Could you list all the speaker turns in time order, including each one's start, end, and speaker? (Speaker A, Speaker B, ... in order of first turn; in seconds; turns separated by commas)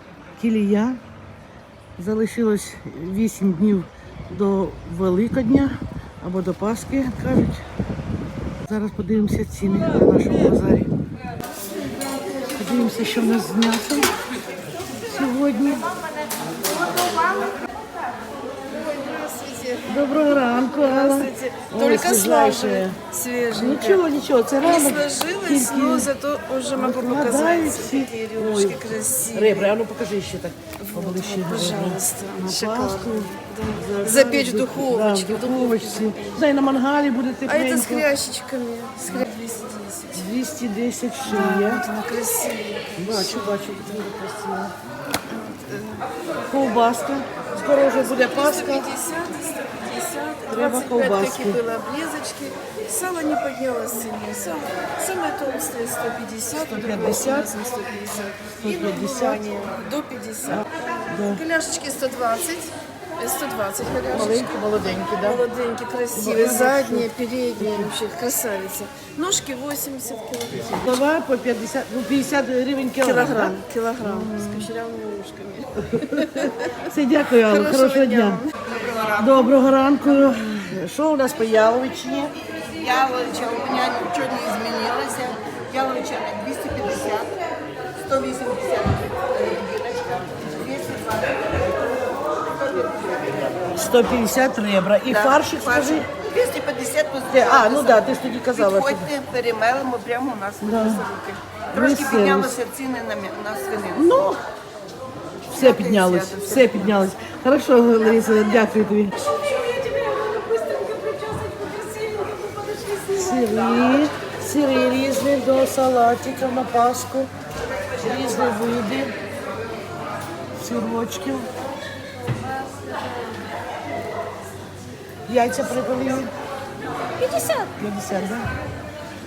Speaker A: 0.4-1.0, Speaker A: 2.0-7.6, Speaker A: 8.7-10.9, Speaker A: 12.6-14.1, Speaker A: 15.1-15.9, Speaker B: 16.6-17.6, Speaker B: 18.5-24.1, Speaker A: 19.9-23.0, Speaker A: 23.5-26.1, Speaker B: 24.6-29.7, Speaker A: 26.7-38.1, Speaker B: 30.8-36.5, Speaker B: 37.5-40.3, Speaker A: 40.1-41.9, Speaker B: 41.3-43.5, Speaker A: 43.0-44.7, Speaker B: 45.3-46.1, Speaker A: 46.5-48.9, Speaker B: 47.9-64.5, Speaker A: 50.5-51.6, Speaker A: 56.5-57.5, Speaker A: 58.6-59.6, Speaker A: 60.5-61.4, Speaker C: 64.1-65.5, Speaker A: 64.1-65.3, Speaker B: 65.2-71.0, Speaker A: 66.1-68.0, Speaker A: 70.7-74.7, Speaker B: 73.0-76.8, Speaker A: 75.8-78.5, Speaker B: 77.4-78.5, Speaker C: 78.6-79.5, Speaker A: 79.2-82.3, Speaker C: 82.5-87.4, Speaker C: 87.9-93.7, Speaker A: 93.8-96.1, Speaker C: 95.0-104.3, Speaker A: 97.3-99.1, Speaker A: 100.6-101.1, Speaker A: 101.7-102.6, Speaker A: 104.0-104.4, Speaker C: 105.5-107.0, Speaker A: 105.5-109.2, Speaker B: 109.3-113.4, Speaker A: 113.1-117.3, Speaker A: 118.0-119.2, Speaker A: 120.5-121.5, Speaker A: 125.3-126.3, Speaker A: 127.6-128.5